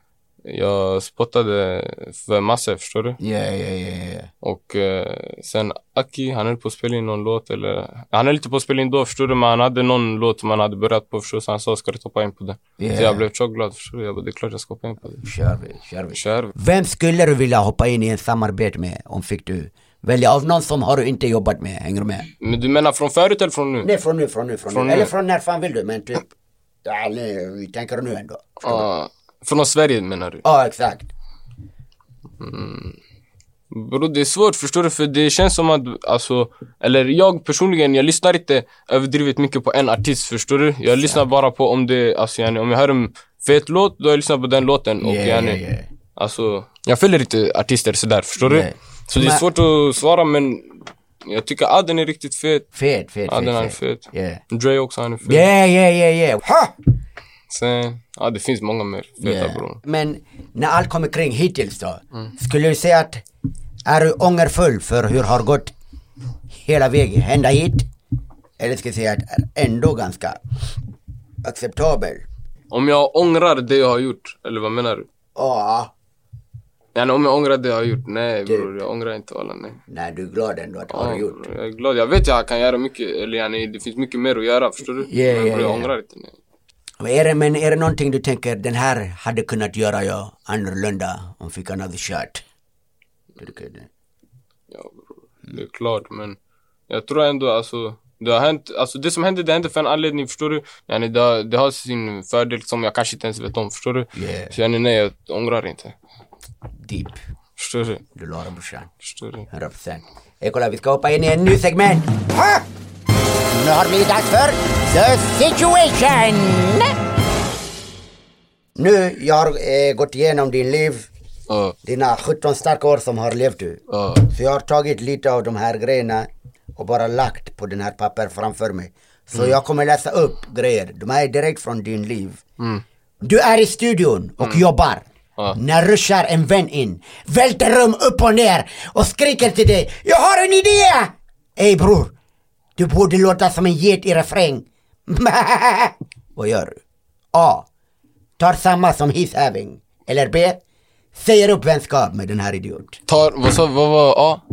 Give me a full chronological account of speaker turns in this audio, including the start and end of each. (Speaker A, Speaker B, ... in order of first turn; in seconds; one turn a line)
Speaker A: 0.5-3.2
Speaker B: 3.2-4.3
Speaker A: 4.4-15.3
Speaker B: 12.8-13.2
Speaker B: 15.2-22.3
Speaker A: 16.1-16.6
Speaker A: 22.4-23.9
Speaker B: 23.8-26.3
Speaker A: 24.7-25.1
Speaker B: 26.9-28.9
Speaker A: 28.6-30.4
Speaker B: 30.4-31.1
Speaker A: 32.4-33.0
Speaker A: 33.7-45.6
Speaker B: 45.0-45.9
Speaker A: 46.2-52.7
Speaker B: 48.4-49.5
Speaker B: 52.7-54.4
Speaker A: 53.3-55.5
Speaker B: 55.2-56.7
Speaker A: 57.5-59.8
Speaker B: 59.2-63.2
Speaker B: 63.9-65.7
Speaker B: 66.5-67.9
Speaker B: 68.6-70.4
Speaker B: 71.4-72.2
Speaker A: 72.7-75.1
Speaker B: 75.4-75.9
Speaker A: 77.0-79.8
Speaker B: 79.9-81.5
Speaker A: 80.9-86.4
Speaker B: 85.0-85.9
Speaker B: 87.0-92.4
Speaker B: 93.4-93.9
Speaker A: 94.7-96.4
Speaker A: 96.9-106.0
Speaker B: 104.2-104.5
Speaker B: 106.8-107.2
Speaker A: 107.6-108.0
Speaker B: 108.2-108.9
Speaker A: 109.0-109.5
Speaker B: 109.5-112.7
Speaker B: 113.5-117.0
Speaker B: 118.8-121.1
Speaker A: 121.5-121.8
Speaker B: 121.8-132.4
Speaker A: 123.9-124.3
Speaker A: 132.6-132.8
Speaker B: 133.2-142.1
Speaker B: 142.8-146.8
Speaker B: 147.3-147.7
Speaker B: 148.4-150.6
Speaker B: 151.2-153.0
Speaker A: 153.1-154.4